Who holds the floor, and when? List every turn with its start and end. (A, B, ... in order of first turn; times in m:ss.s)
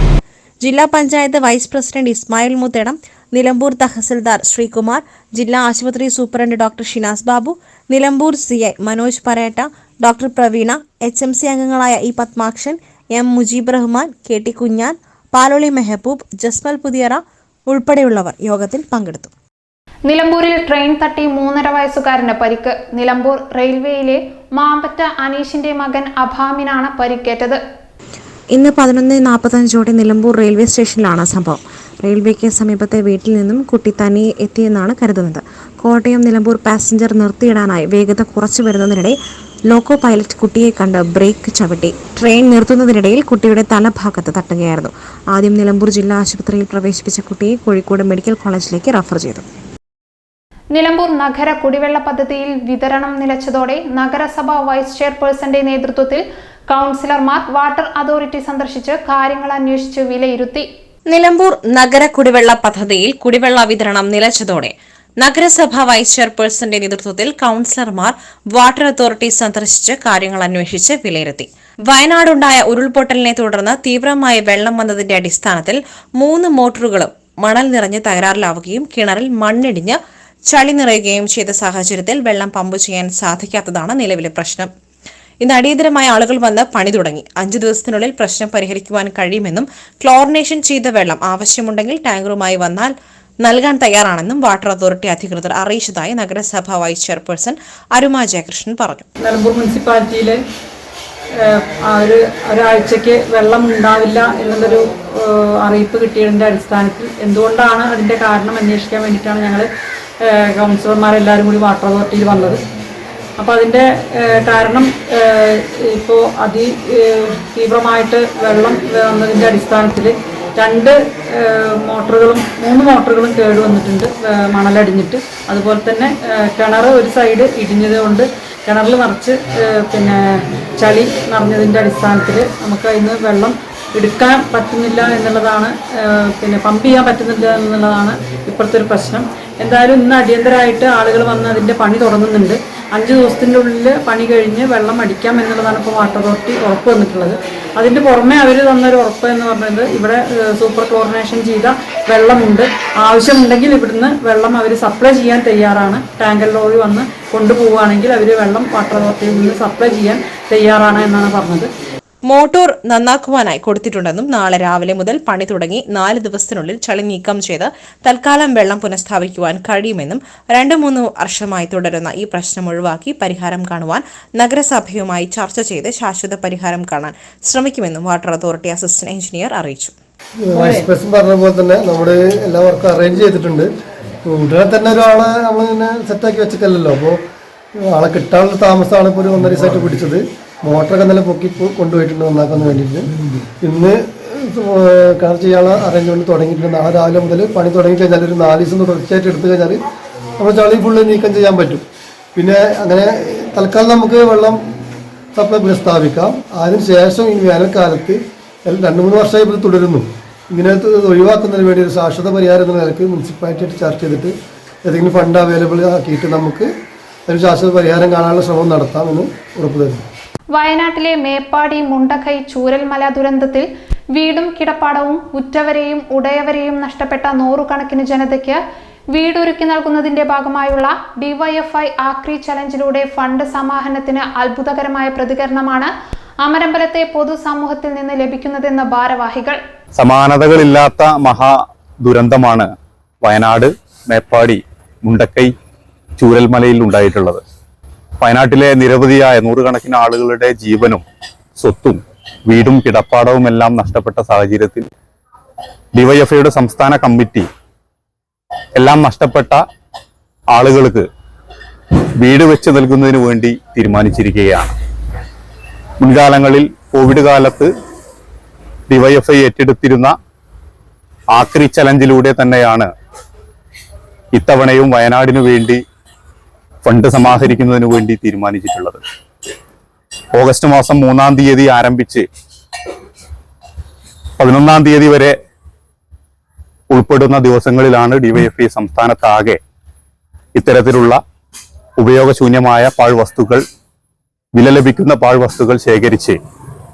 0:00.6-0:19.3 A
0:20.1-0:27.6 B
0:28.5-0:39.2 A
0:39.7-0:49.5 A
0:50.7-1:00.7 B
1:01.1-1:24.7 A
1:25.4-1:39.1 A
1:39.2-1:40.4 C
1:41.5-1:49.7 C
1:50.2-1:52.6 C
1:53.4-2:10.2 C
2:10.8-2:41.7 C
2:42.3-3:00.0 A
3:00.5-3:03.7 D
3:00.5-3:00.8 A
3:04.2-3:07.2 D
3:07.8-3:13.1 D
3:13.6-3:19.8 D
3:20.4-3:21.8 D
3:22.4-3:24.6 D
3:25.4-3:36.7 D
3:37.3-3:40.0 D
3:40.6-3:48.6 B
3:49.1-3:59.6 B
4:00.0-4:01.5 E
4:02.0-4:02.7 E
4:03.2-4:05.5 E
4:06.2-4:07.4 E
4:08.2-4:11.0 E
4:11.6-4:14.9 E
4:16.0-4:17.5 E
4:18.8-4:19.6 E
4:20.5-4:21.0 E
4:22.2-4:24.7 E
4:26.0-4:27.7 E
4:28.9-4:30.1 E
4:31.3-4:32.9 E
4:34.4-4:35.8 E
4:36.8-4:39.0 E
4:40.4-4:42.2 E
4:44.4-4:45.4 E
4:46.9-4:49.6 E
4:50.6-4:51.2 E
4:52.0-4:53.6 E
4:54.6-4:56.4 E